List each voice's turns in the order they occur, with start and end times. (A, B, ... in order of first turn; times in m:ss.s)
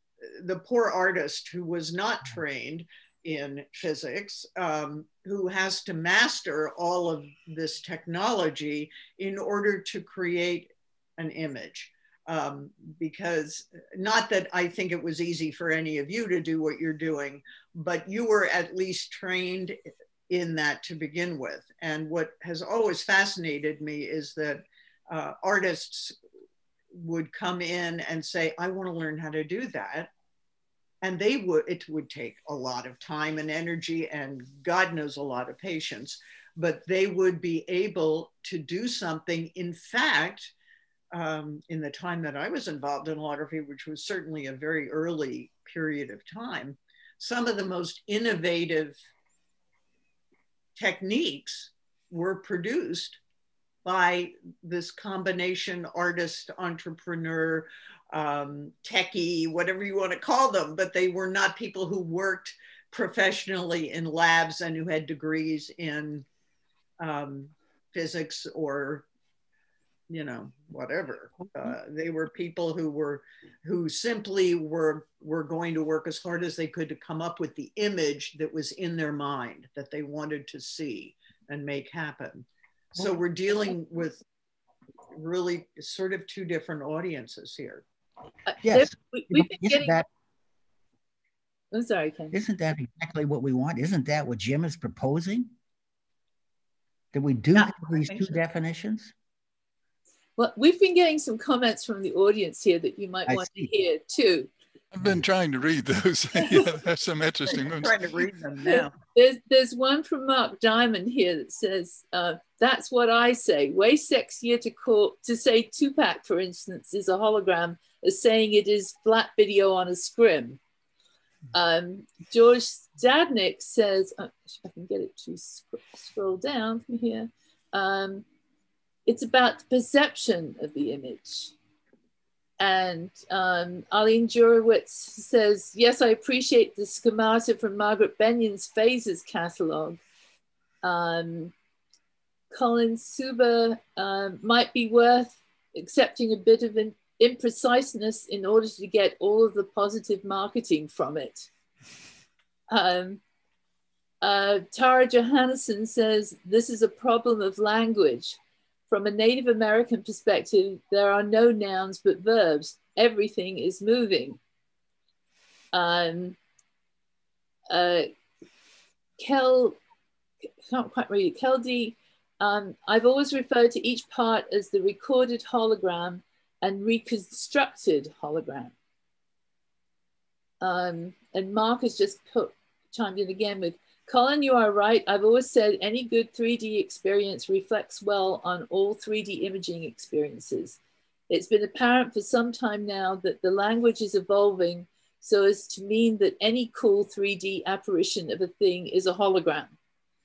0:00.4-0:19.8 A
0:20.3-0:26.1 A
0:27.0-0:30.1 A
0:31.0-0:40.5 A
0:41.1-0:49.0 A
0:50.8-0:53.2 A
0:53.8-1:06.2 A
1:07.0-1:09.0 A
1:10.1-1:24.2 A
1:25.1-1:27.8 A
1:28.5-1:30.0 B
1:28.6-1:30.1 C
1:31.7-1:32.4 B
1:32.3-1:35.5 C
1:37.1-1:39.1 C
1:37.5-1:38.4 A
1:40.4-1:44.5 B
1:43.3-1:43.7 C
1:44.9-1:48.0 D
1:46.4-1:46.7 B
1:47.8-1:48.9 A
1:48.7-2:00.6 B
2:01.5-2:08.2 B
2:09.0-2:11.5 B
2:12.6-2:20.0 B
2:20.8-2:21.5 B
2:22.5-2:31.5 B
2:32.7-2:33.2 B
2:34.2-2:44.4 B
2:45.7-2:46.4 B
2:47.7-2:48.1 B
2:49.2-2:49.8 B
2:50.6-2:58.7 B
3:00.6-3:10.8 B
3:11.3-3:19.8 B